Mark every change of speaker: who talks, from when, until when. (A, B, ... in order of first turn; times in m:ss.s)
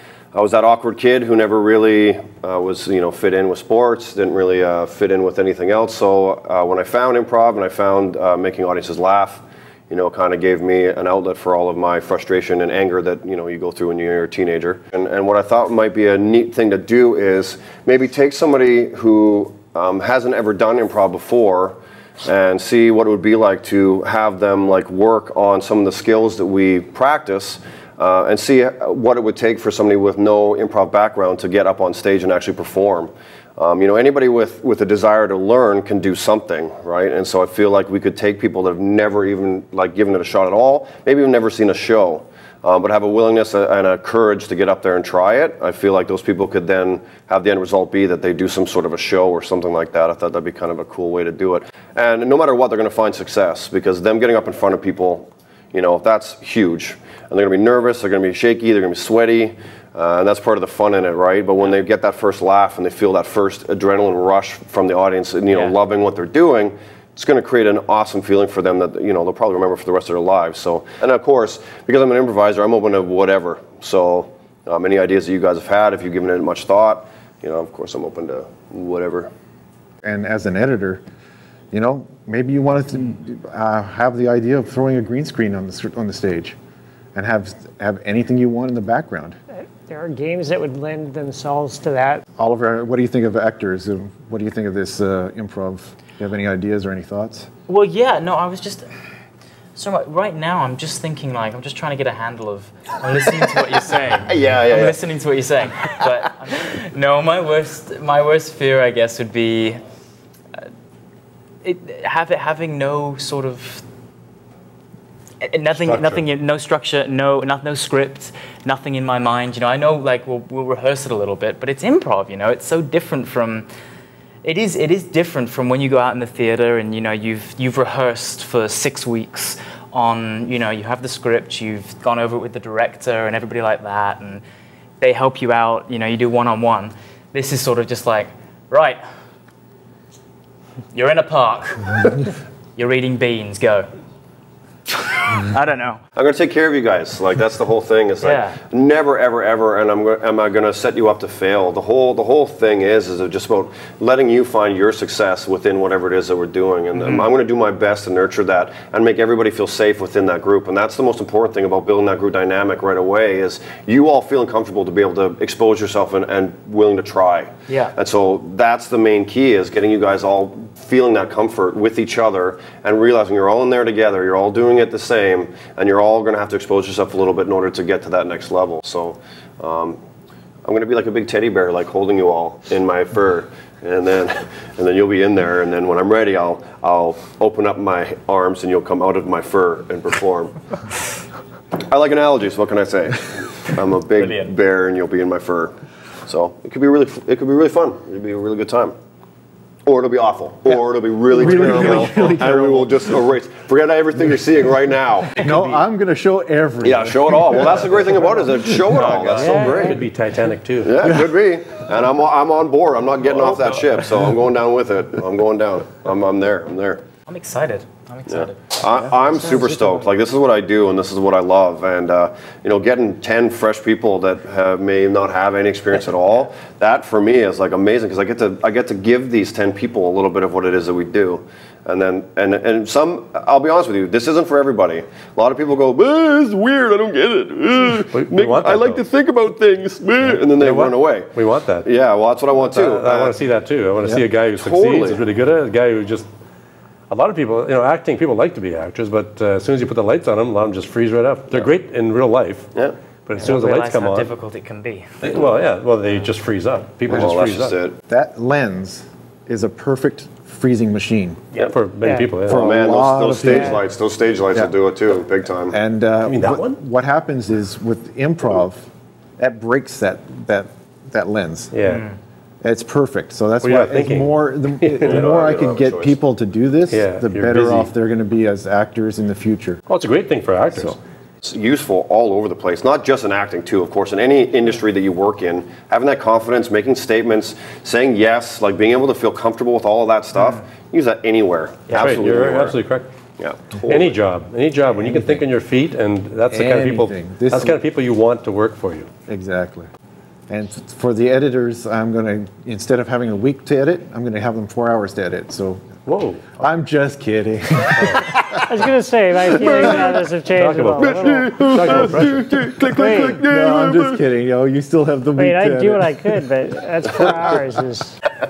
0:00.3-1:19.3 A
1:20.0-1:21.0 B
1:21.7-1:26.6 B
1:27.1-1:29.4 B
1:29.8-1:32.2 C
1:32.4-1:37.5 B
1:37.7-1:38.8 D
1:39.7-1:49.8 D
1:44.3-1:45.0 A
1:51.6-1:53.8 D
1:55.4-2:03.7 D
1:55.7-1:56.2 E
2:04.4-2:14.4 D
2:15.0-2:19.0 D
2:20.9-2:23.9 D
2:24.9-2:26.0 D
2:26.2-3:00.0 A
2:28.2-2:28.6 D
2:37.0-2:37.3 D
2:47.7-2:47.9 D
3:00.6-3:10.6 A
3:11.8-3:15.7 A
3:14.2-3:14.5 D
3:16.2-3:18.9 A
3:19.8-3:25.8 A
3:21.3-3:23.0 B
3:25.4-3:28.9 B
3:26.8-3:30.0 A
3:28.9-3:29.8 D
3:29.2-3:31.0 E
3:29.4-3:30.0 C
3:30.8-3:37.0 A
3:31.0-3:31.3 B
3:37.2-3:38.6 D
3:38.3-4:01.3 A
3:58.1-3:59.0 E
4:00.2-4:01.9 E
4:01.8-4:03.4 A
4:02.6-4:06.3 E
4:04.5-4:05.2 A
4:07.1-4:12.7 E
4:13.2-4:14.3 E
4:13.4-4:15.2 D
4:15.2-4:17.8 E
4:17.1-4:18.0 A
4:18.1-4:21.4 B
4:21.6-4:22.6 E
4:22.0-4:22.3 C
4:22.4-4:23.8 B
4:22.5-4:25.8 A
4:25.6-4:28.9 B
4:26.2-4:26.8 E
4:29.4-4:31.7 B
4:31.7-4:32.1 E
4:32.6-4:39.8 B
4:33.6-4:35.3 E
4:35.0-4:36.2 A
4:36.9-4:37.9 E
4:39.9-4:41.0 E
4:41.4-4:52.8 A
4:51.9-4:53.1 E
4:53.4-4:54.2 A
4:53.8-4:59.1 E
4:56.5-4:57.8 B
4:59.3-4:59.9 B
5:00.5-5:05.8 B
5:06.0-5:06.4 E
5:06.6-5:08.4 B
5:07.9-5:08.2 E
5:08.7-5:12.3 C
5:09.5-5:10.2 A
5:10.5-5:12.7 E
5:11.0-5:14.2 A
5:12.8-5:13.4 C
5:12.9-5:16.3 B
5:15.4-5:18.2 C